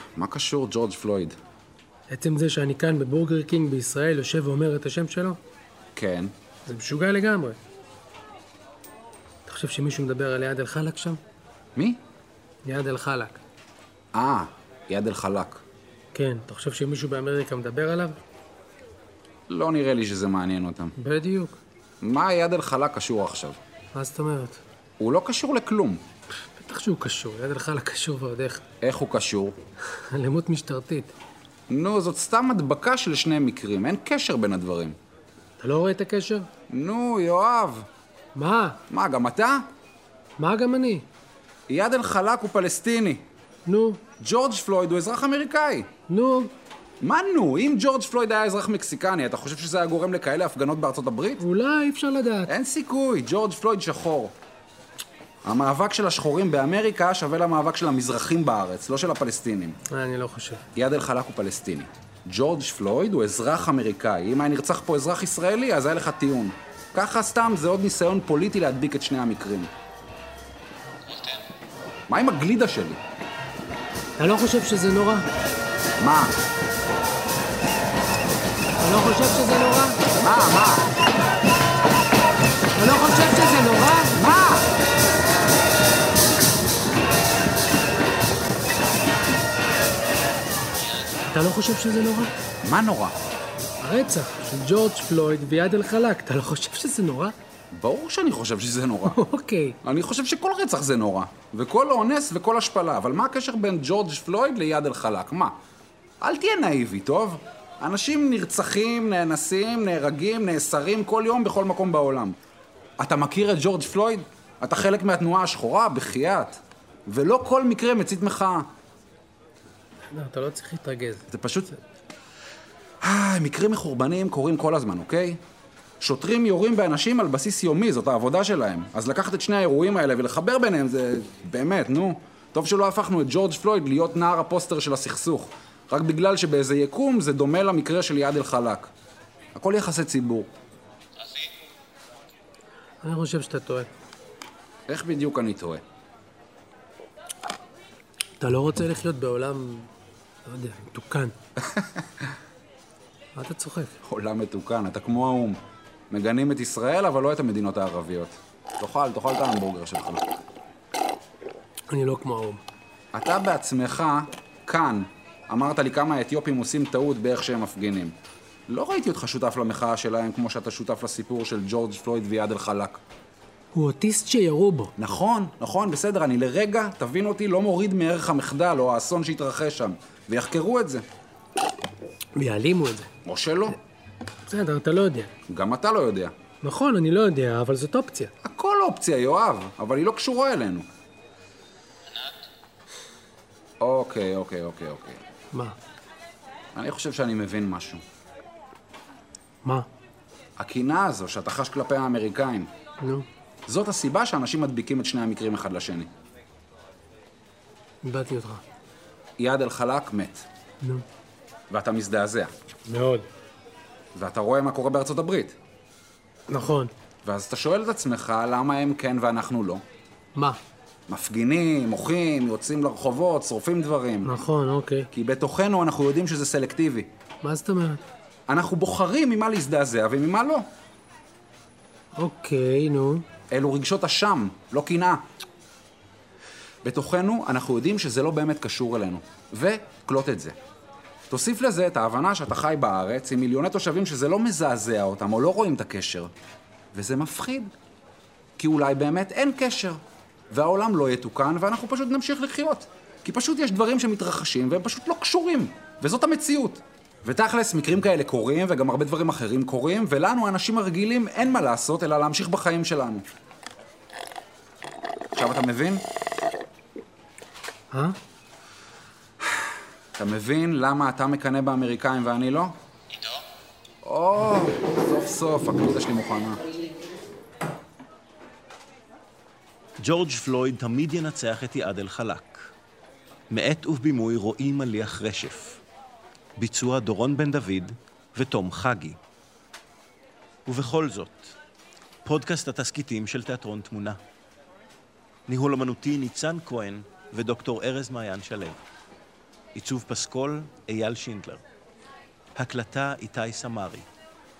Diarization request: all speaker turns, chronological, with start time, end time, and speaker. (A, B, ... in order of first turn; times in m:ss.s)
0:00.1-0:01.4 A
0:02.1-0:05.4 B
0:06.0-0:06.3 A
0:06.6-0:07.6 B
0:09.4-0:11.2 B
0:11.7-0:12.0 A
0:12.6-0:13.4 B
0:14.1-0:15.6 A
0:16.1-0:18.2 B
0:19.5-0:20.9 A
0:21.0-0:21.6 B
0:22.0-0:23.6 A
0:23.9-0:24.6 B
0:25.0-0:26.0 A
0:26.6-0:28.6 B
0:28.8-0:29.6 A
0:29.9-0:31.1 B
0:31.7-0:35.0 A
0:35.6-0:36.5 B
0:36.7-0:37.8 A
0:38.3-0:38.8 B
0:38.9-0:39.6 A
0:40.4-0:41.0 B
0:41.7-0:43.2 A
0:43.6-0:44.0 B
0:44.2-0:45.9 A
0:46.1-0:46.5 B
0:47.0-0:51.4 A
0:51.4-0:52.5 B
0:52.5-0:54.3 A
0:55.4-0:59.8 A
0:59.9-1:00.6 B
1:00.7-1:09.7 A
1:12.1-1:13.0 A
1:14.2-1:15.2 B
1:16.0-1:16.4 A
1:18.8-1:20.0 B
1:20.1-1:20.9 A
1:22.7-1:24.1 B
1:24.1-1:24.7 A
1:31.2-1:32.3 B
1:32.6-1:33.1 A
1:33.8-1:37.3 B
1:37.7-1:39.2 A
1:39.1-1:39.8 B
1:39.8-1:45.5 A
1:46.2-1:52.4 A
1:53.0-1:58.7 A
2:00.1-2:01.3 B
2:01.3-2:01.7 A
2:03.0-2:05.4 A
2:06.0-2:18.9 A
2:19.5-2:20.5 A
2:23.0-2:23.9 B
2:24.9-2:25.8 A
2:28.4-2:29.9 B
2:30.4-2:31.3 B
2:33.4-2:34.0 B
2:34.0-2:40.2 A
2:41.9-2:42.6 B
2:43.1-2:48.1 A
2:48.7-2:53.0 A
2:53.7-2:54.9 B
2:55.0-3:01.0 A
3:02.3-3:03.1 B
3:03.2-3:03.8 A
3:04.4-3:05.3 B
3:05.5-3:06.3 A
3:06.6-3:08.3 B
3:08.4-3:10.9 A
3:13.8-3:15.2 A
3:16.7-3:18.0 A
3:20.6-3:22.7 A
3:23.0-3:23.3 B
3:23.7-3:26.1 A
3:28.0-3:28.6 B
3:29.4-3:30.4 A
3:31.7-3:32.5 A
3:32.9-3:33.3 B
3:34.1-3:35.6 A
3:36.5-3:36.9 B
3:37.2-3:39.8 A
3:41.1-3:44.4 A
3:44.2-3:45.1 B
3:45.1-3:47.1 A
3:47.4-3:48.0 B
3:48.5-3:50.6 A
3:52.1-3:53.2 B
3:53.5-3:55.2 A
3:56.8-4:00.6 A
4:01.3-4:06.3 A
4:06.9-4:07.7 A
4:08.6-4:10.0 A
4:10.5-4:23.2 A
4:25.3-4:26.0 A
4:27.9-4:28.2 B
4:30.2-4:32.8 A
4:34.0-4:36.6 A
4:40.0-4:42.7 C
4:43.5-4:45.8 C
4:46.6-4:49.2 C
4:50.7-4:51.6 C
4:52.2-4:54.2 C
4:55.5-4:58.8 C
4:59.7-5:01.6 C
5:02.6-5:04.1 C